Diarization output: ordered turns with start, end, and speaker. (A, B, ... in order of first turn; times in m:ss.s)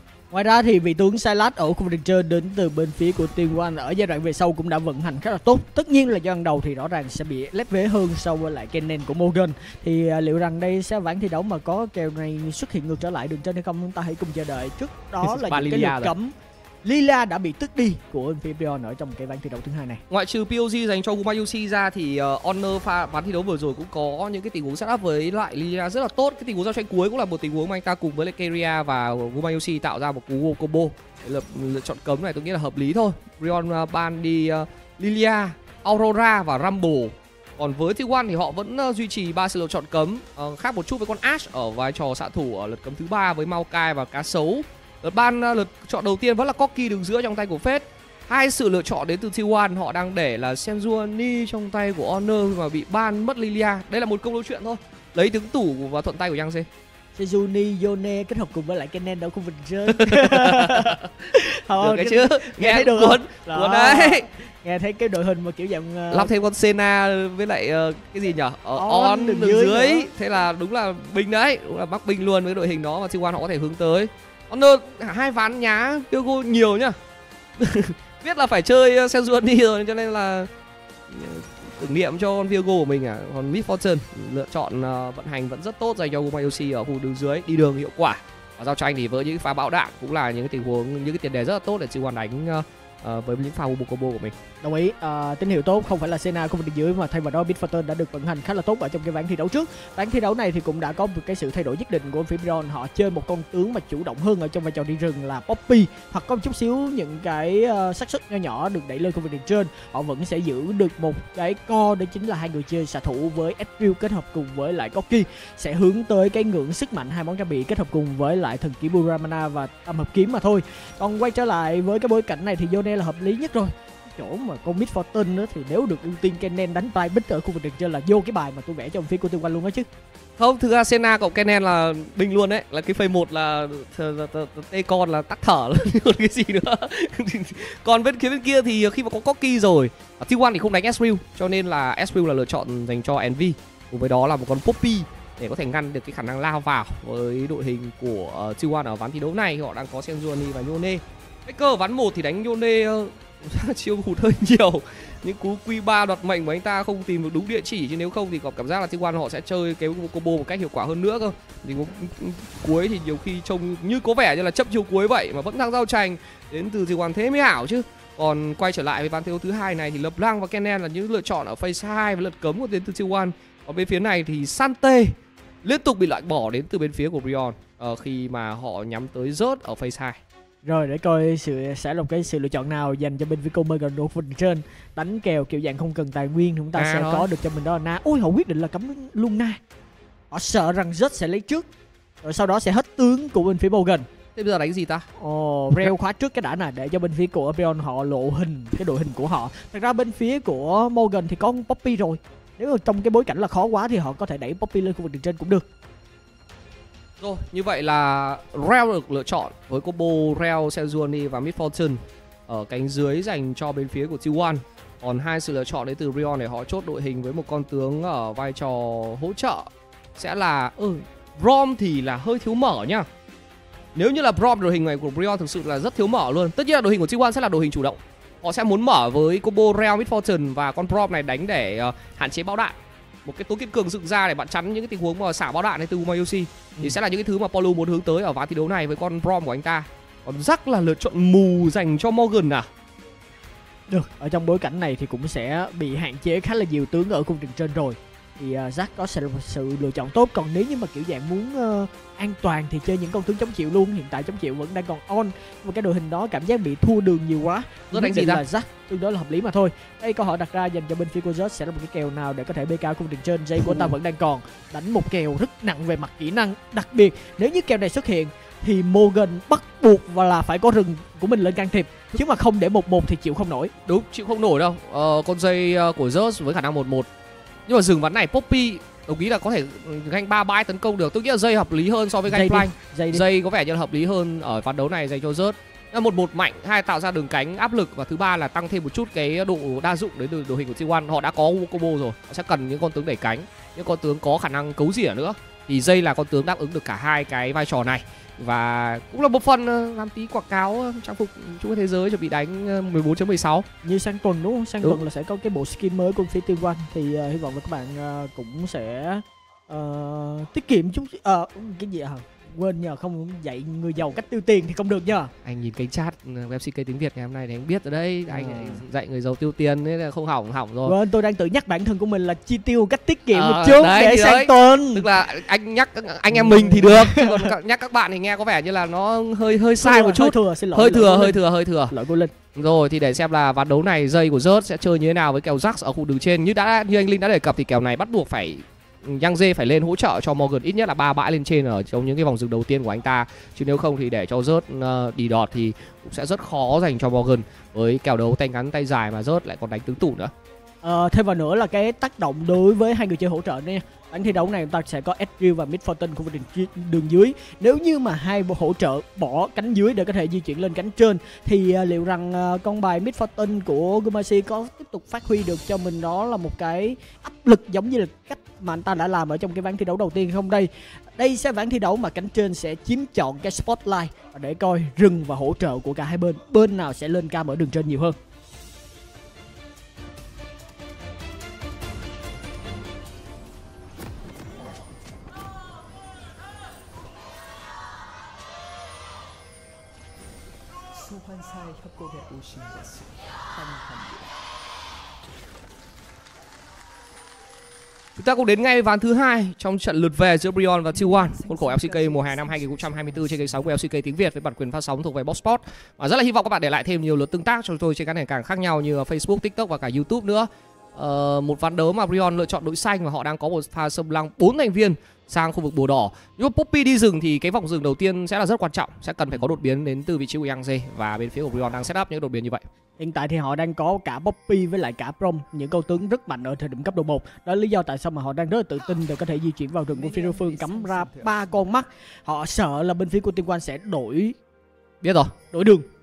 0:00.3-0:20.0 A
0:15.2-0:16.1 B
0:20.1-0:56.7 B
0:57.2-1:06.3 A
0:59.9-1:01.1 B
1:01.8-1:04.2 B
1:06.1-1:17.0 B
1:08.8-1:10.1 A
1:17.6-1:20.5 B
1:21.1-1:34.4 B
1:34.6-2:09.9 A
2:10.4-3:00.2 B
3:00.6-3:09.6 A
3:06.8-3:07.3 B
3:10.3-3:11.7 A
3:12.2-3:14.0 A
3:14.4-3:15.0 B
3:15.2-3:25.6 A
3:27.2-3:43.1 B
3:43.9-4:02.7 B
4:03.9-4:33.7 A
4:17.9-4:18.4 B
4:33.8-4:37.1 B
4:37.7-5:03.6 B
4:42.3-4:43.2 A
5:03.8-5:15.3 A
5:15.4-5:21.0 B
5:18.3-5:18.8 A
5:20.8-5:25.1 A
5:23.3-5:31.9 B
5:26.3-5:27.5 A
5:29.8-5:32.3 A
5:32.5-5:50.3 B
5:50.8-6:18.2 A
6:30.9-6:34.4 C
6:38.2-7:02.6 B
6:40.9-6:43.7 C
7:03.0-7:14.4 A
7:09.9-7:11.6 C
7:15.0-7:15.3 B
7:15.5-7:15.8 A